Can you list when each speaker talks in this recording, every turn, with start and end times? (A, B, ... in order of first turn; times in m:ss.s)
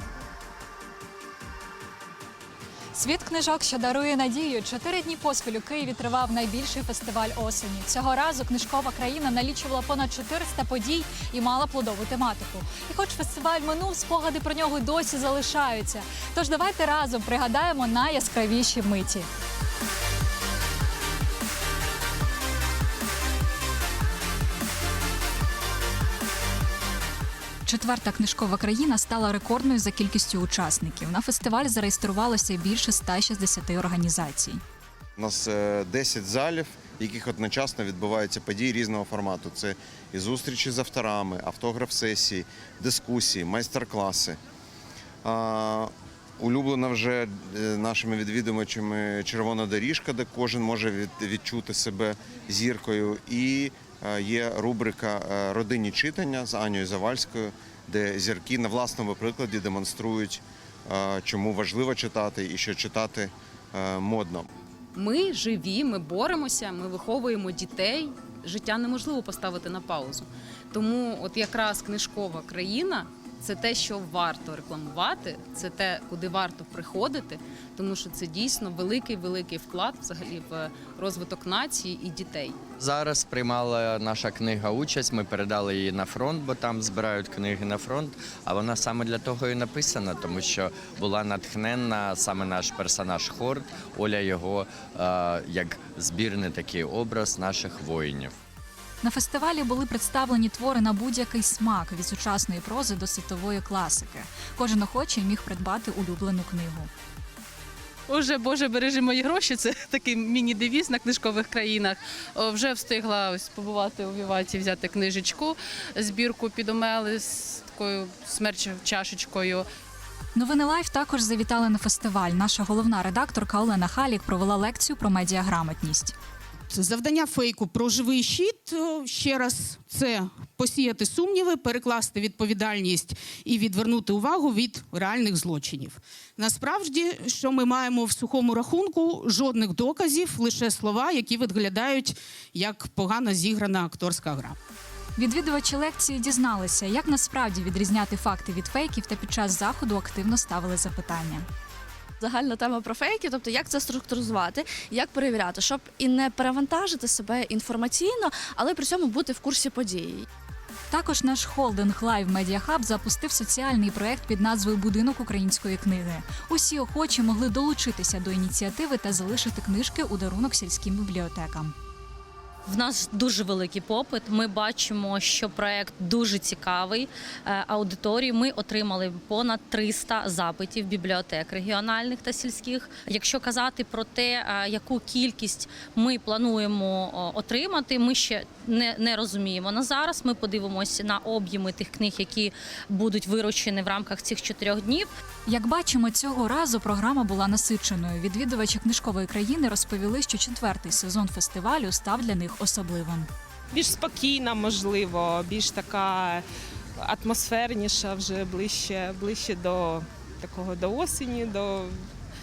0:02.9-0:19.2 A
0:27.6-0:34.6 A
0:35.2-0:44.4 B
0:45.2-1:04.5 B
1:04.9-1:22.6 C
1:22.8-1:38.3 D
1:39.0-1:46.9 A
1:48.1-1:59.7 E
2:00.3-2:06.1 A
2:06.7-2:24.5 F
2:25.2-2:31.4 A
2:32.2-2:40.3 G
2:40.9-2:51.7 A
2:52.7-3:15.1 H
3:15.4-3:23.3 A
3:23.7-3:26.4 I
3:27.0-3:32.0 I